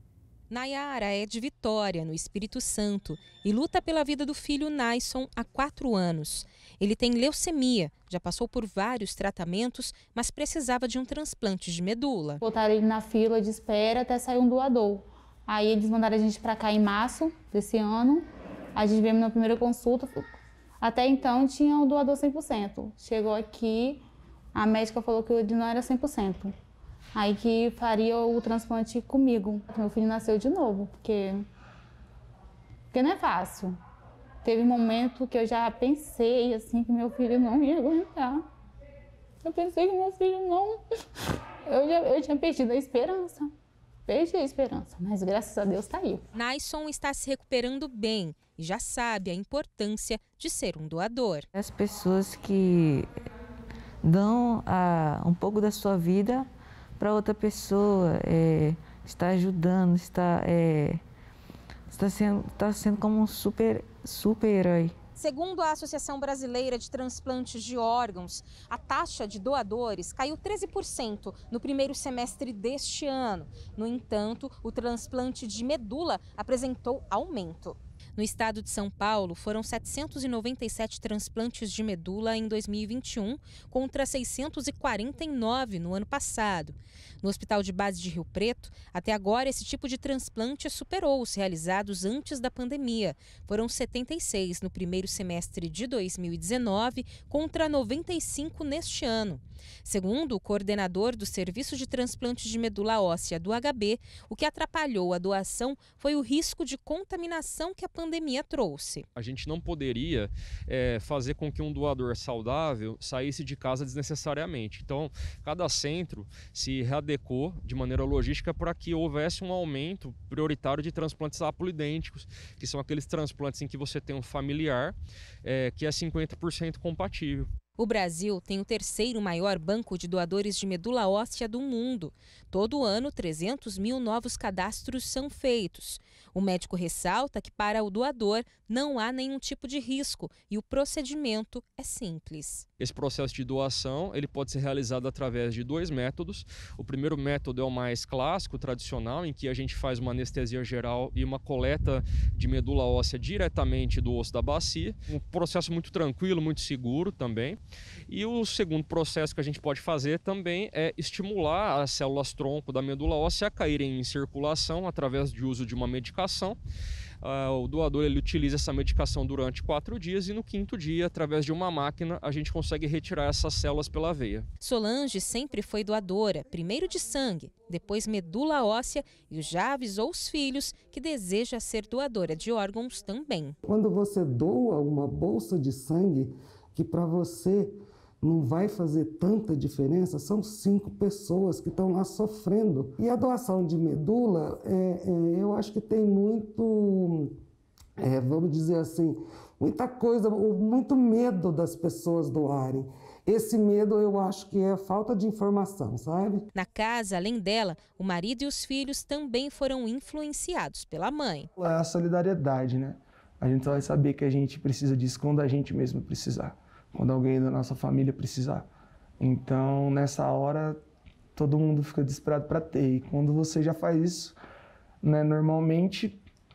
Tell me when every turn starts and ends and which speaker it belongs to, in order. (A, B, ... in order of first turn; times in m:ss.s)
0:00.5-0:12.4 A
0:12.4-0:18.2 B
0:18.7-0:20.3 B
0:20.8-0:26.5 B
0:27.1-0:31.4 B
0:32.9-0:33.8 B
0:34.4-0:38.4 B
0:39.4-0:40.8 B
0:41.6-0:43.5 B
0:44.0-0:46.2 B
0:46.3-0:51.5 A
0:51.5-0:53.1 C
0:54.0-0:56.5 C
0:57.0-1:01.0 C
1:01.9-1:04.9 C
1:05.2-1:49.0 A
1:49.1-2:07.5 D
2:07.8-2:22.6 A
2:22.8-2:46.6 D
2:47.2-2:54.5 D
2:54.6-3:03.6 A
3:03.6-3:17.4 E
3:18.0-3:26.4 E
3:26.5-3:31.5 A
3:31.6-3:38.7 F
3:39.2-3:40.8 F
3:41.3-3:44.4 F
3:45.0-3:46.2 F